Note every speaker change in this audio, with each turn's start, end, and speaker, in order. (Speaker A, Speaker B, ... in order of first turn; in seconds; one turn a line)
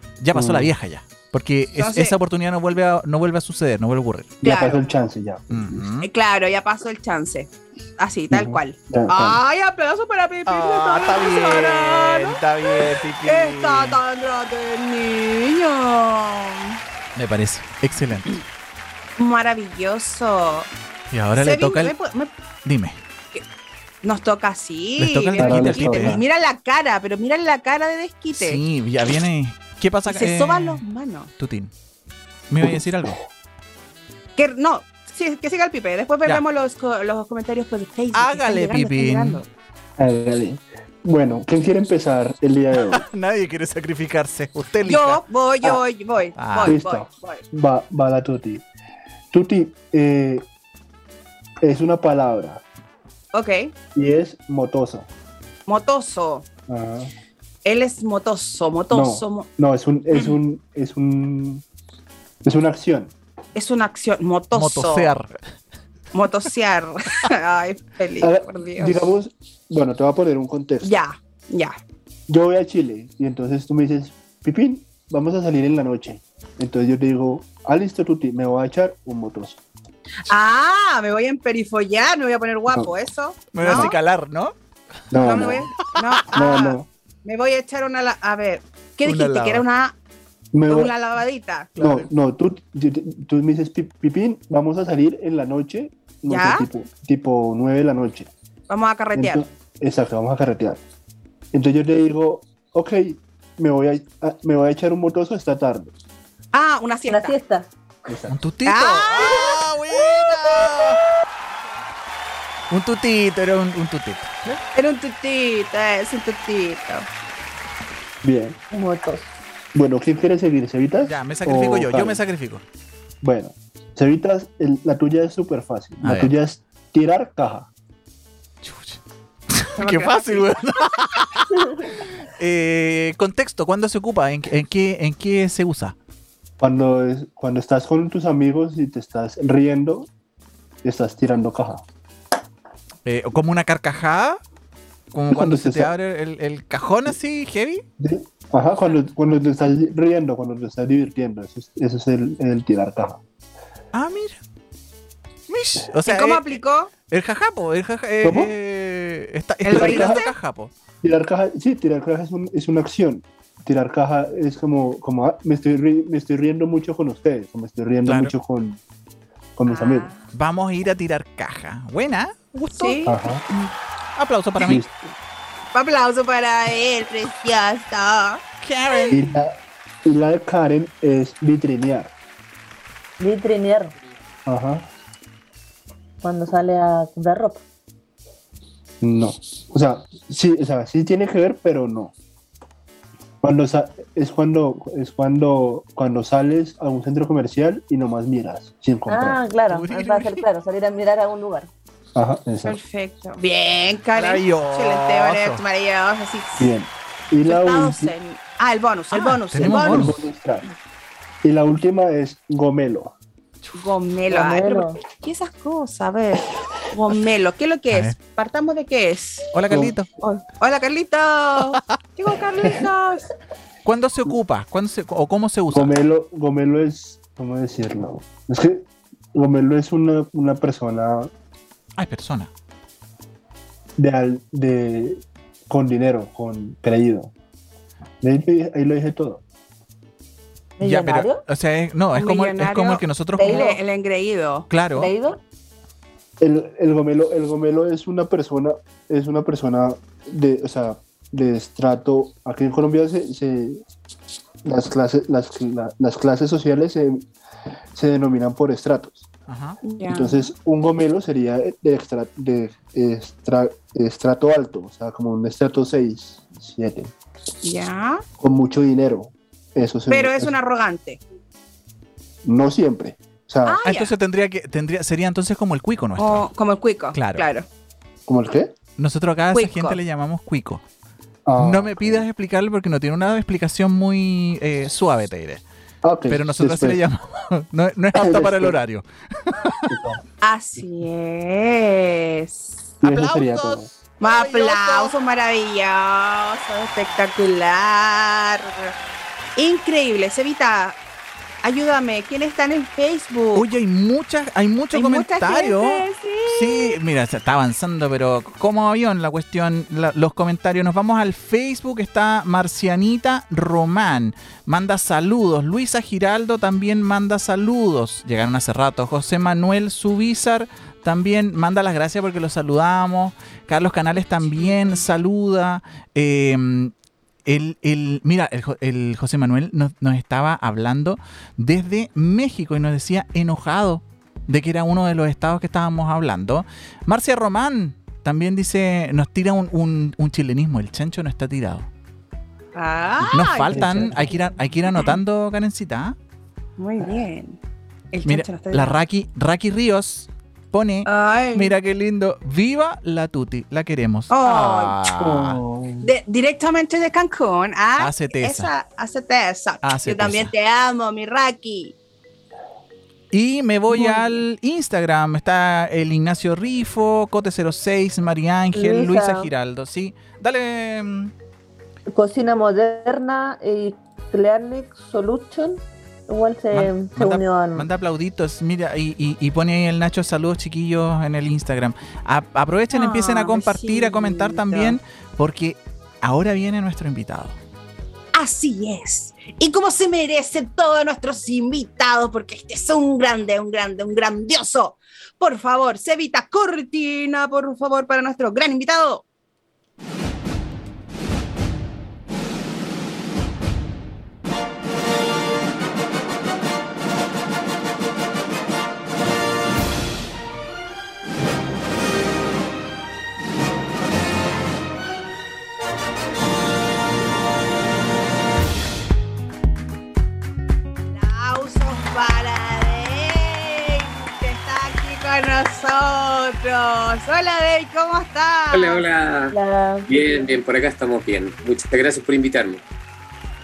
Speaker A: 0.2-4.4
Speaker B: 0.3-0.7
Speaker C: 1.8-2.2
Speaker C: 4.4-4.9
Speaker B: 4.4-5.7
Speaker A: 5.5-6.1
Speaker C: 6.0-16.8
Speaker B: 8.3-9.4
Speaker A: 10.5-14.0
Speaker A: 17.2-18.4
Speaker C: 19.2-20.7
Speaker A: 21.1-22.0
Speaker C: 21.3-22.3
Speaker A: 22.6-23.0
Speaker C: 24.0-28.6
Speaker A: 25.0-26.2
Speaker B: 25.4-26.2
Speaker A: 28.3-30.8
Speaker C: 30.1-31.3
Speaker A: 31.4-31.7
Speaker A: 32.5-33.2
Speaker B: 32.6-33.2
Speaker C: 34.4-39.5
Speaker A: 38.1-39.4
Speaker B: 40.0-43.0
Speaker A: 42.9-45.2
Speaker C: 44.8-47.4
Speaker A: 46.4-46.8
Speaker B: 46.6-48.6
Speaker B: 49.3-50.4
Speaker B: 51.6-52.6
Speaker C: 53.3-53.7
Speaker B: 54.0-55.1
Speaker C: 55.7-56.5
Speaker B: 56.7-57.1
Speaker C: 57.6-59.5
Speaker B: 58.9-61.6
Speaker B: 62.4-63.1
Speaker C: 63.5-65.1
Speaker A: 64.5-65.4
Speaker C: 66.1-69.0
Speaker B: 68.2-71.0
Speaker C: 70.8-71.8
Speaker B: 72.3-79.6
Speaker C: 80.3-84.0
Speaker A: 83.5-84.5
Speaker B: 85.1-85.7
Speaker C: 85.2-90.0
Speaker A: 85.3-86.0
Speaker B: 86.3-86.9
Speaker A: 89.0-89.7
Speaker B: 90.5-90.9
Speaker C: 90.7-91.7
Speaker A: 91.8-92.1
Speaker B: 91.8-98.3
Speaker C: 96.3-96.7
Speaker C: 98.7-99.4
Speaker B: 99.2-100.8
Speaker B: 101.5-105.9
Speaker C: 106.5-107.4
Speaker D: 107.1-107.7
Speaker B: 108.1-108.4
Speaker A: 108.3-111.0
Speaker C: 108.7-110.7
Speaker A: 112.7-114.6
Speaker C: 114.8-117.1
Speaker B: 118.2-118.6
Speaker D: 118.7-119.3
Speaker B: 119.7-122.2
Speaker A: 121.1-122.6
Speaker B: 123.2-127.7
Speaker A: 126.0-126.3
Speaker A: 128.6-131.4
Speaker C: 129.8-130.5
Speaker A: 132.1-136.0
Speaker B: 136.6-140.1
Speaker B: 140.8-141.8
Speaker A: 143.1-144.4
Speaker A: 145.1-147.8
Speaker B: 145.3-145.9
Speaker B: 148.0-153.2
Speaker A: 153.9-154.4
Speaker A: 155.5-156.5
Speaker C: 156.1-156.9
Speaker A: 157.1-160.7
Speaker B: 158.2-158.5
Speaker C: 159.6-160.3
Speaker B: 159.7-160.2
Speaker B: 161.0-168.8
Speaker A: 168.1-168.3
Speaker B: 169.6-170.1
Speaker C: 169.7-170.3
Speaker A: 170.3-173.1
Speaker C: 172.7-173.7
Speaker B: 173.1-173.4
Speaker A: 174.2-174.8
Speaker B: 174.6-174.9
Speaker C: 175.7-179.2
Speaker A: 178.6-179.2
Speaker B: 179.1-182.1
Speaker D: 183.2-183.9
Speaker B: 184.5-184.9
Speaker D: 186.2-187.6
Speaker B: 189.0-192.1
Speaker B: 193.4-199.4
Speaker D: 199.1-201.7
Speaker A: 199.7-200.4
Speaker B: 202.2-202.8
Speaker C: 202.6-206.7
Speaker A: 204.2-205.6
Speaker B: 206.6-208.2
Speaker C: 207.5-210.3
Speaker A: 209.1-210.2
Speaker B: 209.6-210.7
Speaker B: 211.4-213.1
Speaker C: 213.8-219.5
Speaker D: 214.3-215.0
Speaker A: 217.9-218.2
Speaker A: 219.5-220.1
Speaker B: 219.7-220.0
Speaker C: 220.2-223.3
Speaker A: 223.8-225.9
Speaker B: 225.7-231.3
Speaker A: 232.0-232.5
Speaker B: 234.0-237.3
Speaker B: 238.2-239.4
Speaker D: 240.8-241.4
Speaker A: 240.8-243.7
Speaker C: 242.2-244.7
Speaker D: 243.4-243.8
Speaker A: 244.7-245.1
Speaker D: 244.9-245.4
Speaker B: 246.4-253.8
Speaker B: 254.7-257.3
Speaker B: 257.9-259.3
Speaker A: 259.5-259.8
Speaker C: 259.8-260.4
Speaker B: 260.0-267.1
Speaker C: 267.6-268.2
Speaker B: 268.4-270.6
Speaker C: 270.1-271.2
Speaker B: 272.4-273.8
Speaker C: 273.6-274.1
Speaker A: 273.8-276.5
Speaker C: 276.2-277.7
Speaker A: 277.1-277.5
Speaker B: 278.3-278.7
Speaker A: 279.0-280.8
Speaker C: 279.5-280.0
Speaker B: 281.4-282.3
Speaker A: 281.6-285.6
Speaker B: 286.0-287.0
Speaker A: 286.3-289.8
Speaker B: 288.1-288.8
Speaker B: 289.9-290.2
Speaker C: 290.4-292.9
Speaker B: 293.0-293.9
Speaker A: 293.0-295.1
Speaker C: 294.2-298.9
Speaker C: 299.6-301.0
Speaker C: 301.6-303.7
Speaker A: 303.5-326.9
Speaker C: 304.9-307.0
Speaker A: 327.4-341.9
Speaker C: 342.7-345.2
Speaker A: 343.3-346.2
Speaker B: 343.7-344.3
Speaker C: 346.8-347.6
Speaker C: 348.1-349.0
Speaker A: 348.2-355.6
Speaker C: 351.1-351.7
Speaker C: 354.3-355.0
Speaker B: 355.1-356.1
Speaker C: 356.0-361.9
Speaker A: 358.0-358.7
Speaker A: 359.8-360.5
Speaker A: 363.3-371.3
Speaker C: 363.9-364.4
Speaker D: 368.7-369.5
Speaker D: 372.1-377.9
Speaker A: 376.7-387.6
Speaker C: 382.9-385.0
Speaker C: 388.3-399.2
Speaker C: 421.1-429.0
Speaker E: 428.7-429.6
Speaker D: 429.5-430.1
Speaker E: 430.1-432.8